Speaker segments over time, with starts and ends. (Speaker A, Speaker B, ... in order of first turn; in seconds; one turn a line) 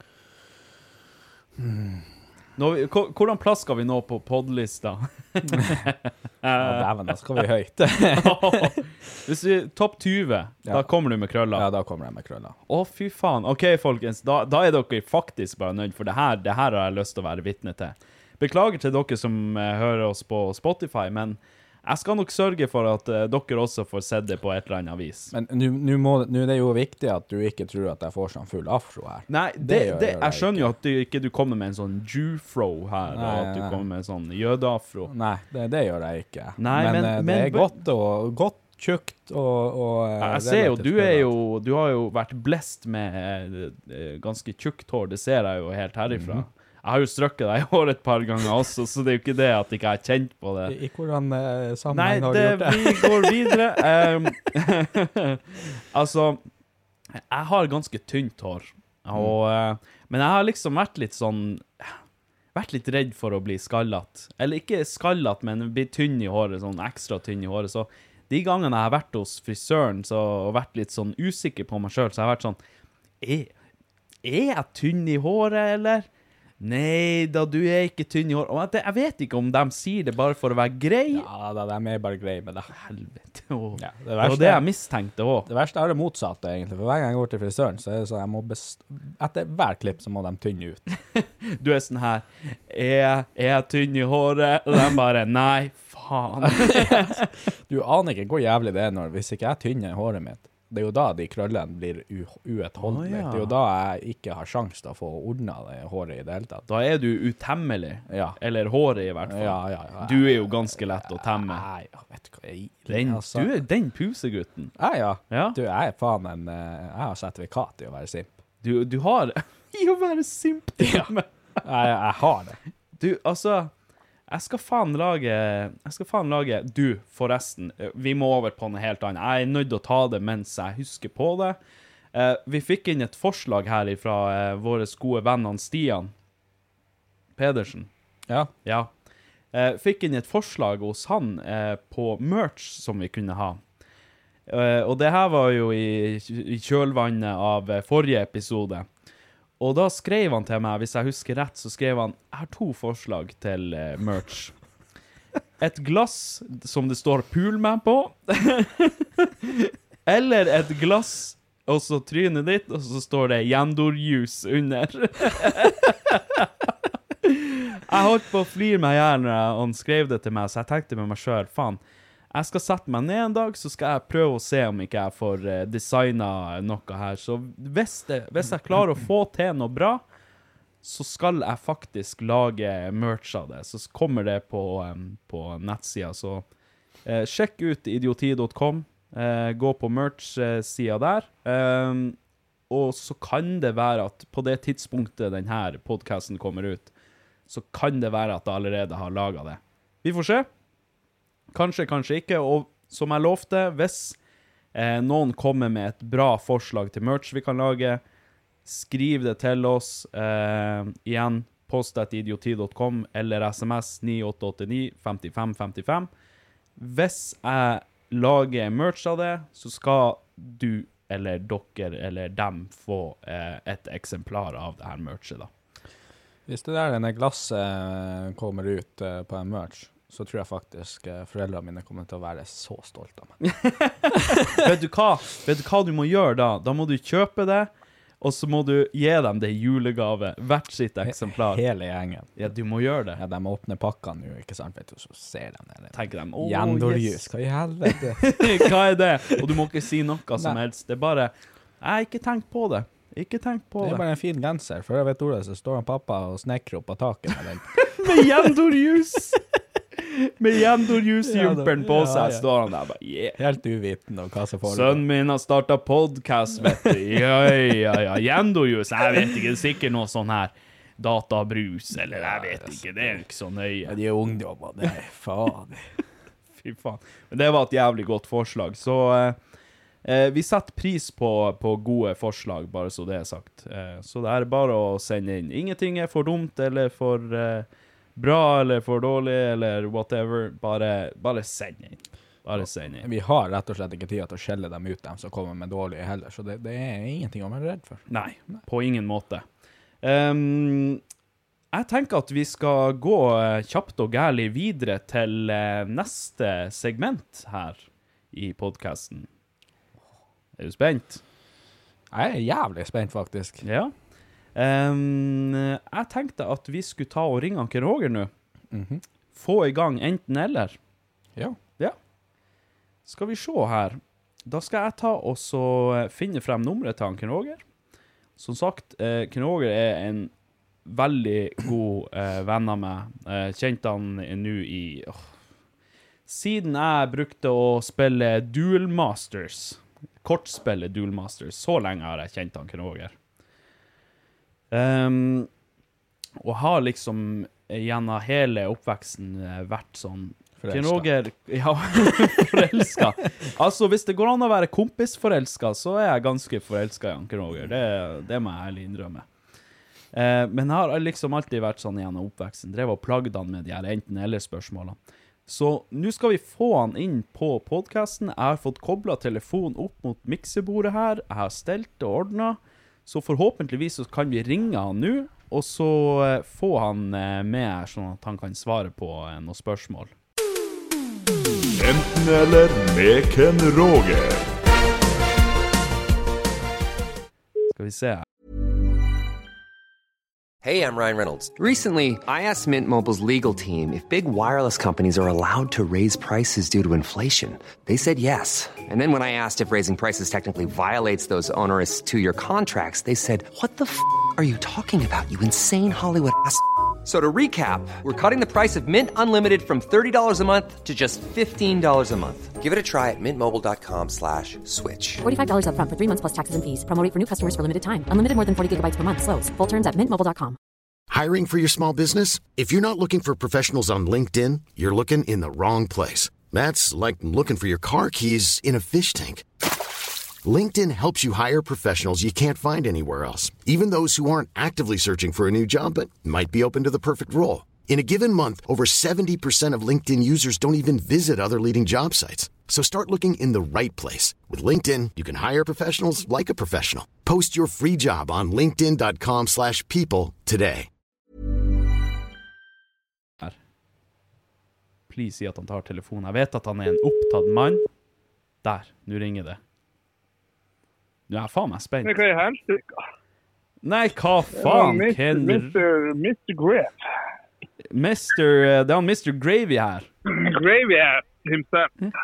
Speaker A: 1.6-2.0
Speaker B: 2.6-6.9
Speaker A: 6.6-8.8
Speaker B: 8.1-11.7
Speaker A: 10.7-10.9
Speaker A: 11.5-12.6
Speaker B: 12.7-25.3
Speaker A: 25.3-30.7
Speaker B: 29.3-35.1
Speaker A: 33.1-33.8
Speaker A: 35.1-41.3
Speaker B: 36.6-37.7
Speaker B: 40.2-50.7
Speaker A: 46.1-46.5
Speaker A: 50.7-53.6
Speaker B: 51.9-56.4
Speaker B: 57.3-62.0
Speaker B: 62.5-72.6
Speaker B: 73.2-73.5
Speaker B: 74.2-76.1
Speaker B: 76.6-81.3
Speaker A: 81.1-82.7
Speaker B: 82.7-85.5
Speaker A: 83.8-84.7
Speaker A: 85.5-90.8
Speaker B: 91.2-97.2
Speaker A: 96.4-106.7
Speaker B: 102.8-103.5
Speaker B: 106.7-111.7
Speaker A: 108.1-108.4
Speaker A: 109.2-113.5
Speaker B: 112.9-114.7
Speaker A: 114.8-118.3
Speaker B: 115.3-115.6
Speaker B: 118.6-121.3
Speaker A: 120.8-121.1
Speaker A: 121.6-122.6
Speaker B: 123.0-123.7
Speaker B: 124.3-131.6
Speaker B: 132.1-136.1
Speaker B: 137.4-137.9
Speaker B: 138.7-138.9
Speaker B: 139.5-143.6
Speaker B: 144.5-148.9
Speaker B: 149.6-154.5
Speaker B: 155.6-166.7
Speaker B: 167.2-171.8
Speaker B: 172.3-180.0
Speaker B: 180.8-186.4
Speaker B: 187.1-192.2
Speaker B: 192.7-196.9
Speaker B: 197.5-200.5
Speaker B: 201.5-204.2
Speaker B: 204.7-208.0
Speaker B: 208.7-216.1
Speaker B: 216.8-225.5
Speaker A: 226.5-233.3
Speaker B: 233.4-237.7
Speaker B: 238.2-241.6
Speaker A: 241.0-242.5
Speaker B: 242.4-243.2
Speaker A: 243.2-248.7
Speaker B: 245.9-247.3
Speaker B: 247.9-254.0
Speaker A: 253.8-258.5
Speaker B: 258.0-259.4
Speaker B: 260.0-263.4
Speaker A: 261.2-262.5
Speaker A: 263.4-265.0
Speaker B: 264.7-274.0
Speaker A: 266.6-266.9
Speaker A: 271.9-273.2
Speaker A: 273.9-275.9
Speaker B: 276.6-279.4
Speaker B: 280.1-293.1
Speaker A: 292.6-298.6
Speaker B: 298.1-299.4
Speaker B: 300.0-301.0
Speaker B: 301.7-309.3
Speaker B: 310.6-311.2
Speaker A: 312.1-313.6
Speaker B: 313.6-313.9
Speaker B: 314.6-318.3
Speaker A: 318.7-319.0
Speaker B: 319.4-320.8
Speaker B: 323.1-327.6
Speaker B: 328.4-330.3
Speaker B: 330.9-335.3
Speaker B: 336.3-343.1
Speaker B: 344.7-345.5
Speaker B: 346.4-359.3
Speaker A: 350.6-351.1
Speaker B: 360.1-380.1
Speaker C: 381.8-384.5
Speaker B: 387.8-388.2
Speaker D: 390.6-415.2
Speaker E: 415.2-420.6
Speaker F: 421.1-429.5
Speaker F: 430.4-450.9
Speaker B: 455.1-457.8
Speaker B: 458.6-459.6
Speaker B: 461.3-462.2
Speaker G: 462.0-463.0
Speaker B: 463.8-465.8
Speaker G: 464.6-467.0
Speaker B: 467.9-470.1
Speaker G: 470.3-471.9